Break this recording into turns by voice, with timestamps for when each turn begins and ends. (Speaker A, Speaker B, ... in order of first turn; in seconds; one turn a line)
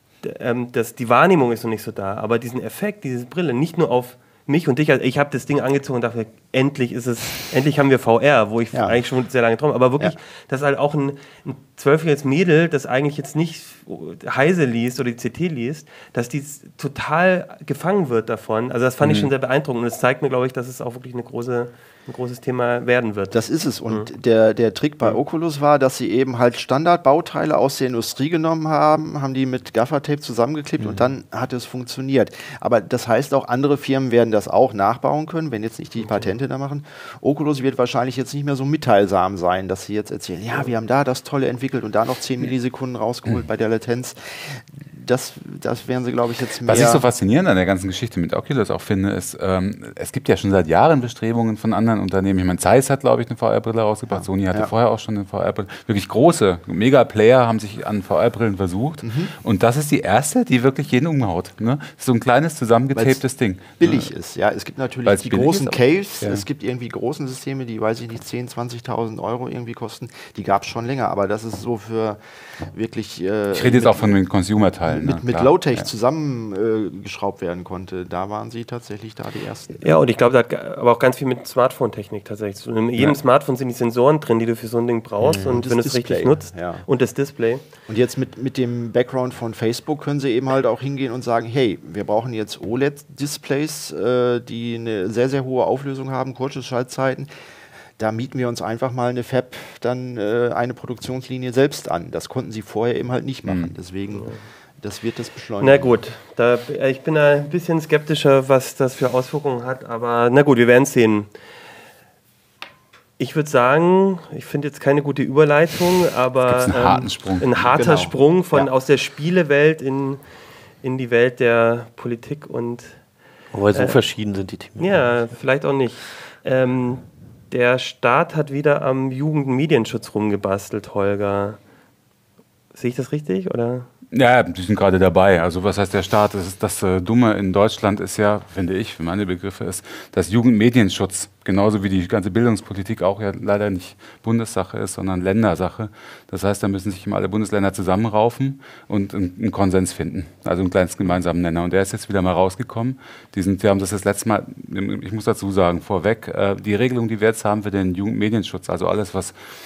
Speaker A: 0.2-23.4
Speaker B: 8.7-9.0
Speaker C: 19.0-19.3
Speaker B: 23.3-47.1
Speaker D: 30.8-31.1
Speaker C: 46.6-64.1
Speaker B: 54.1-54.7
Speaker B: 59.0-59.3
Speaker B: 62.9-63.2
Speaker B: 63.8-74.2
Speaker C: 65.0-66.4
Speaker C: 73.5-75.8
Speaker B: 74.9-79.9
Speaker A: 79.8-87.6
Speaker D: 85.2-85.6
Speaker B: 85.3-86.8
Speaker B: 87.9-97.3
Speaker B: 98.0-106.0
Speaker C: 103.4-103.7
Speaker A: 104.1-104.4
Speaker A: 105.6-111.3
Speaker A: 113.2-120.2
Speaker C: 116.5-117.9
Speaker B: 117.7-118.7
Speaker A: 120.8-123.0
Speaker D: 123.5-125.2
Speaker A: 123.7-124.0
Speaker A: 124.8-131.6
Speaker A: 132.7-133.9
Speaker C: 134.1-159.3